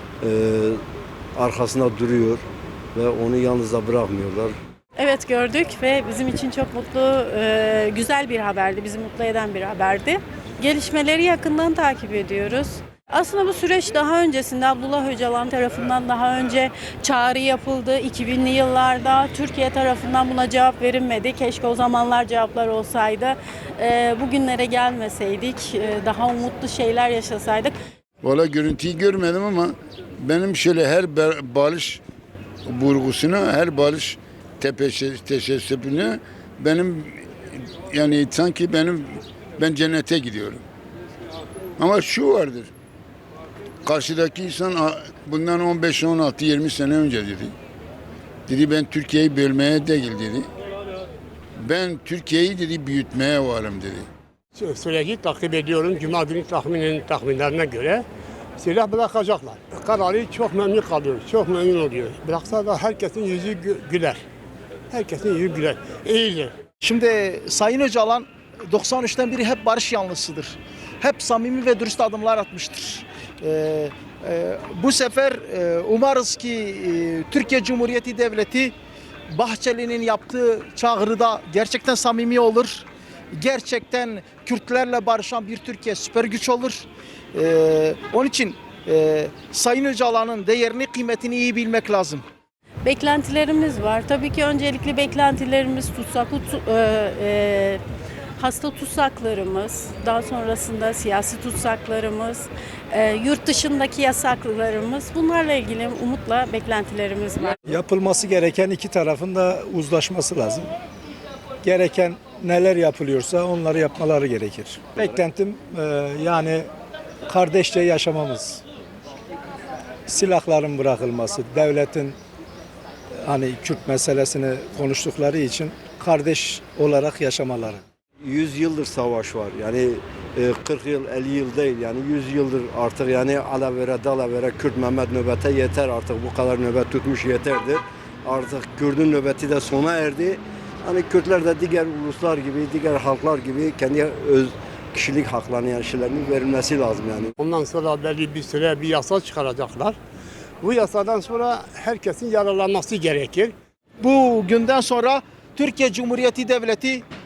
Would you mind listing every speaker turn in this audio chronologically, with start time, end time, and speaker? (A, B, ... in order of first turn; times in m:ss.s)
0:00.2-0:00.8 A
0:01.4-0:02.4 A
0:03.0-0:04.5 A
0:05.0-0:27.7 B
0:28.2-0:32.0 C
0:32.7-0:37.2 C
0:37.9-0:40.6 C
0:41.8-0:42.7 C
0:43.8-0:47.5 C
0:48.5-0:50.5 C
0:51.6-0:54.1 C
0:54.6-0:58.1 D
0:58.6-1:04.2 D
1:04.9-1:06.6 D
1:06.8-1:18.7 E
1:19.3-1:32.2 E
1:32.8-1:37.8 B
1:38.4-1:47.6 B
1:47.7-1:50.7 F
1:51.6-1:56.7 F
1:57.3-1:58.6 F
2:00.1-2:02.2 F
2:03.2-2:07.8 F
2:08.2-2:27.3 A
2:27.4-2:30.0 D
2:30.6-2:33.5 D
2:34.0-2:37.0 E